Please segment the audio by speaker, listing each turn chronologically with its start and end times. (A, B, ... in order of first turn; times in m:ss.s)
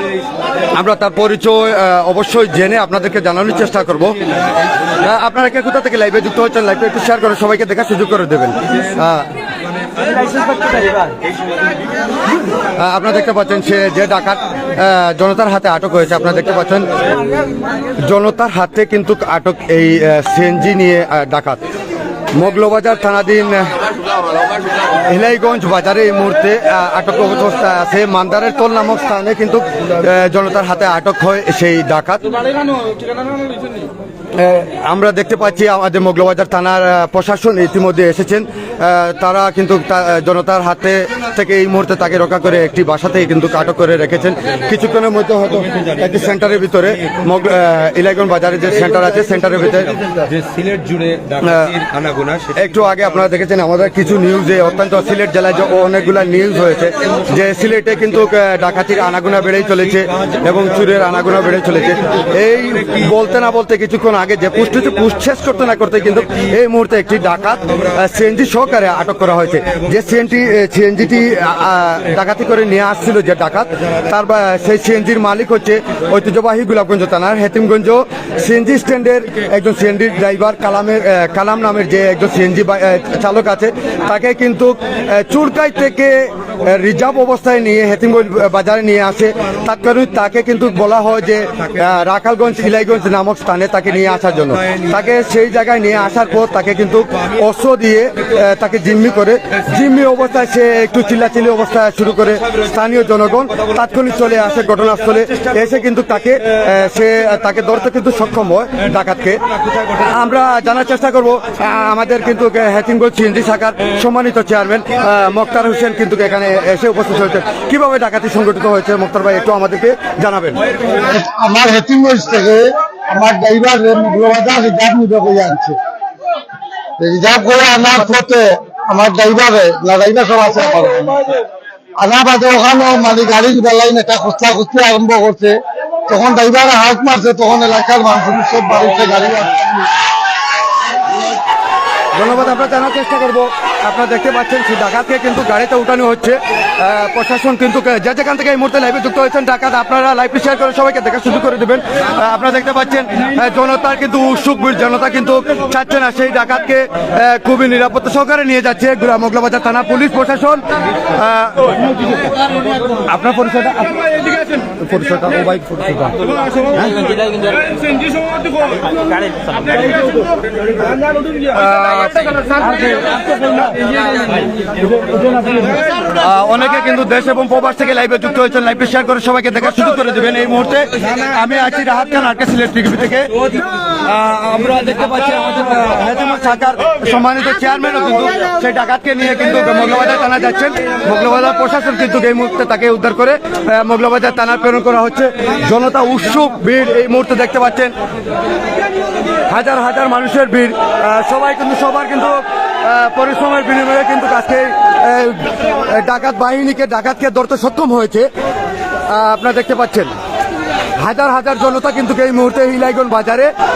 0:00.7-0:04.2 A
0:05.0-0:09.3 A
0:10.2-0:11.1 B
0:12.8-0:16.9 A
0:18.0-0:21.6 A
0:22.3-0:23.8 A
0:25.0-0:32.3 A
0:34.3-0:50.1 A
0:50.4-0:51.2 B
0:51.3-0:51.9 A
0:52.4-2:00.6 A
2:00.9-2:05.8 C
2:07.0-2:11.3 C
2:12.0-2:19.9 C
2:22.1-2:42.2 A
2:42.9-2:47.1 A
2:47.0-2:47.8 B
2:48.6-2:50.0 B
2:51.4-2:53.9 A
2:56.1-3:17.9 A
3:19.5-3:28.3 A
3:29.1-3:30.1 A
3:31.0-3:33.5 A